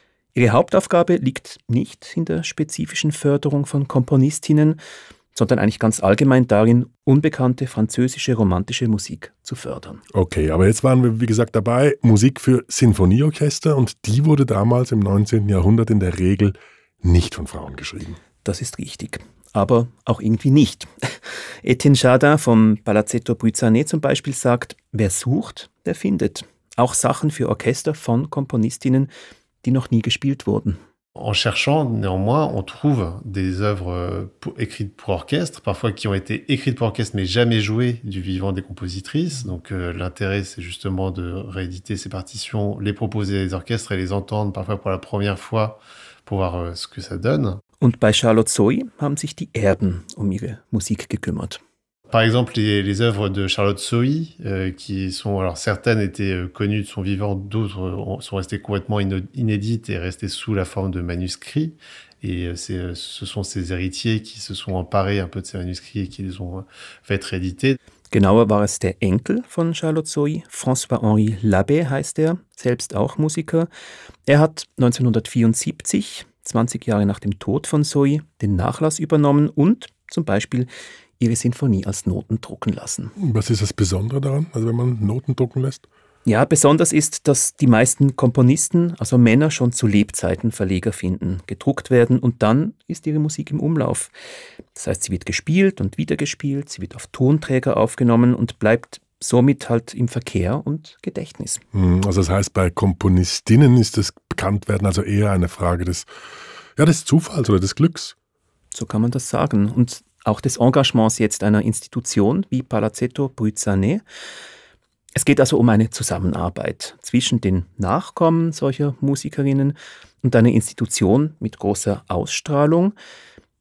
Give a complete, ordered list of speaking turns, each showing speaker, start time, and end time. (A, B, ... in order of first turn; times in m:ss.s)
0:00.4-0:04.8 A
0:05.3-0:10.0 A
0:10.1-0:18.2 B
0:18.4-0:29.1 A
0:29.6-0:30.8 A
0:31.2-0:47.6 C
0:47.8-0:51.6 A
0:52.1-1:07.8 C
1:08.1-1:13.7 A
1:14.3-1:23.1 A
1:23.2-1:25.9 B
1:26.3-1:34.1 A
1:34.8-1:41.6 A
1:41.7-1:46.1 B
1:46.8-1:48.2 B
1:48.7-1:54.0 A
1:55.2-2:02.9 A